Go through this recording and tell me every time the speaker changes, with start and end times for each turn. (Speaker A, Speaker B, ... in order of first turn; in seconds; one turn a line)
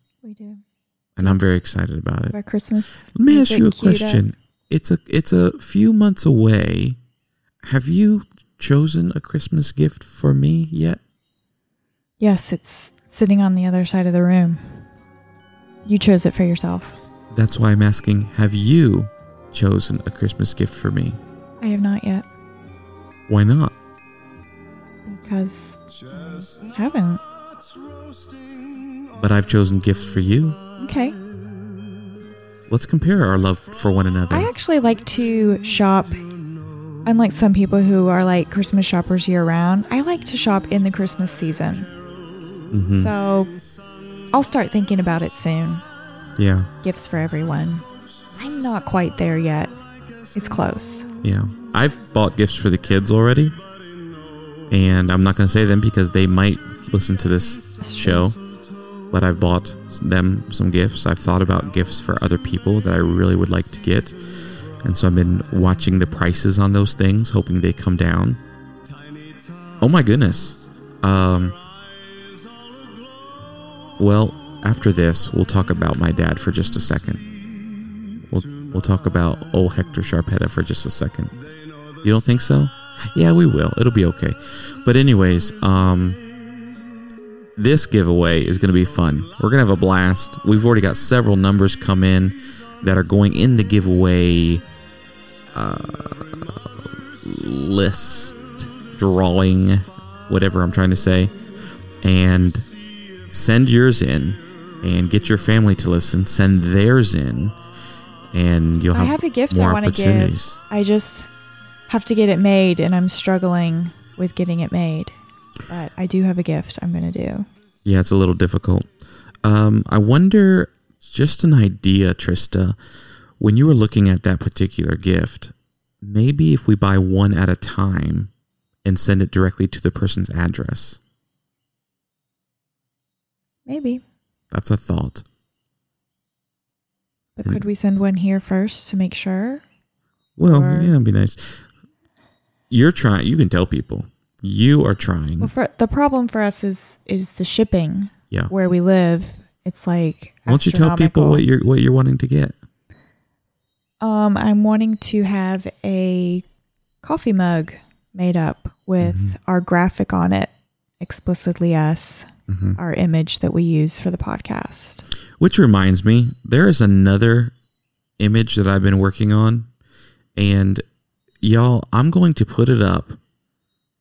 Speaker A: 0.2-0.6
Speaker B: 1.2-2.4
Speaker A: 2.3-4.2
Speaker B: 3.1-7.0
Speaker B: 7.6-11.0
Speaker A: 12.2-14.8
Speaker A: 15.8-16.9
Speaker B: 17.3-21.2
Speaker A: 21.6-22.3
Speaker B: 23.3-23.8
Speaker A: 25.0-27.2
Speaker B: 29.1-30.6
Speaker A: 30.8-31.2
Speaker B: 32.7-34.5
Speaker A: 34.3-36.2
Speaker A: 37.0-41.9
Speaker B: 42.7-43.1
Speaker A: 42.9-43.5
Speaker A: 44.3-45.8
Speaker B: 46.4-46.7
Speaker A: 46.8-49.7
Speaker A: 50.3-51.1
Speaker B: 51.2-53.5
Speaker B: 54.7-58.4
Speaker A: 57.8-58.3
Speaker B: 59.1-64.2
Speaker B: 64.8-68.4
Speaker B: 69.8-71.5
Speaker B: 74.0-77.2
Speaker B: 78.3-81.3
Speaker B: 82.0-86.2
Speaker B: 87.5-94.6
Speaker B: 95.5-96.6
Speaker B: 97.2-101.3
Speaker B: 102.0-102.7
Speaker B: 103.3-107.5
Speaker B: 108.3-110.6
Speaker A: 108.9-111.3
Speaker A: 111.9-115.1
Speaker A: 115.7-117.5
Speaker B: 117.8-118.9
Speaker B: 119.4-122.8
Speaker B: 123.4-128.3
Speaker B: 128.8-131.0
Speaker A: 133.7-134.0
Speaker B: 134.5-135.2
Speaker A: 137.4-139.6
Speaker B: 140.4-141.7
Speaker A: 140.5-140.9
Speaker B: 142.7-145.5
Speaker A: 145.4-151.4
Speaker B: 150.5-152.5
Speaker A: 154.0-156.4
Speaker A: 157.0-165.1
Speaker B: 159.0-159.3
Speaker B: 162.5-162.8
Speaker B: 165.4-167.5
Speaker B: 168.2-169.7
Speaker B: 170.3-170.8
Speaker B: 171.4-173.2